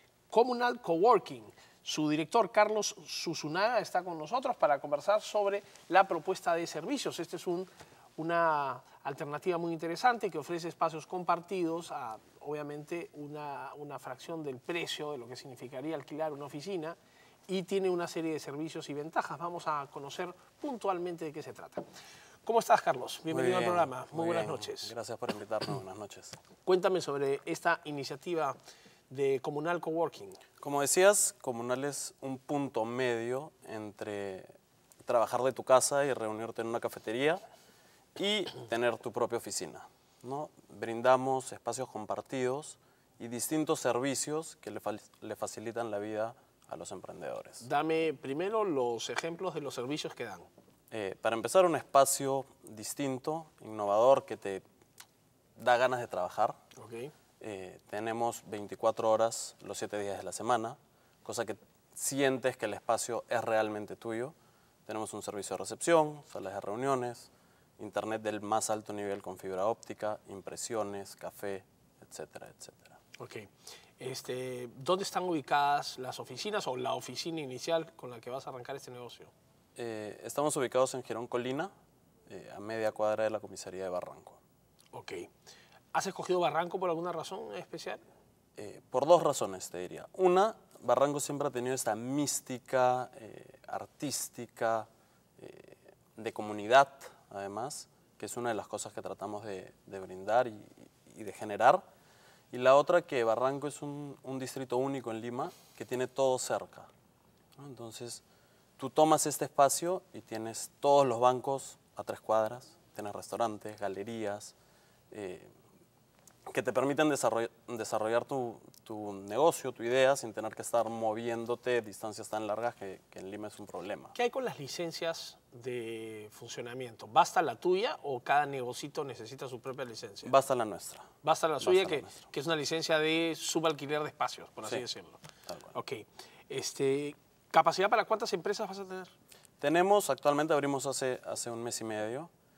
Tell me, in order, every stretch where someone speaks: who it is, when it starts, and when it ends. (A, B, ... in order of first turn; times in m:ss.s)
0:00.3-0:17.0 A
0:17.5-0:21.8 A
0:22.4-0:24.9 A
0:23.3-0:26.4 B
0:26.7-0:28.6 A
0:29.1-0:30.4 A
0:30.6-0:34.5 B
0:35.1-0:37.4 B
0:38.2-0:47.7 B
0:47.6-0:50.5 A
0:50.9-0:54.6 B
0:55.6-0:56.6 B
0:56.8-0:57.1 A
0:57.4-1:04.3 B
1:04.9-1:13.0 B
1:13.2-1:19.3 A
1:19.8-1:21.7 B
1:22.3-1:24.4 B
1:24.9-1:25.3 A
1:25.9-1:28.0 A
1:28.6-1:34.9 B
1:35.4-1:41.8 B
1:42.5-1:46.9 B
1:47.6-1:48.2 B
1:48.8-1:54.5 B
1:55.1-1:55.5 B
1:56.5-2:04.2 B
2:04.2-2:10.3 A
2:10.2-2:12.2 B
2:11.2-2:19.1 A
2:15.5-2:15.7 B
2:19.6-2:22.3 B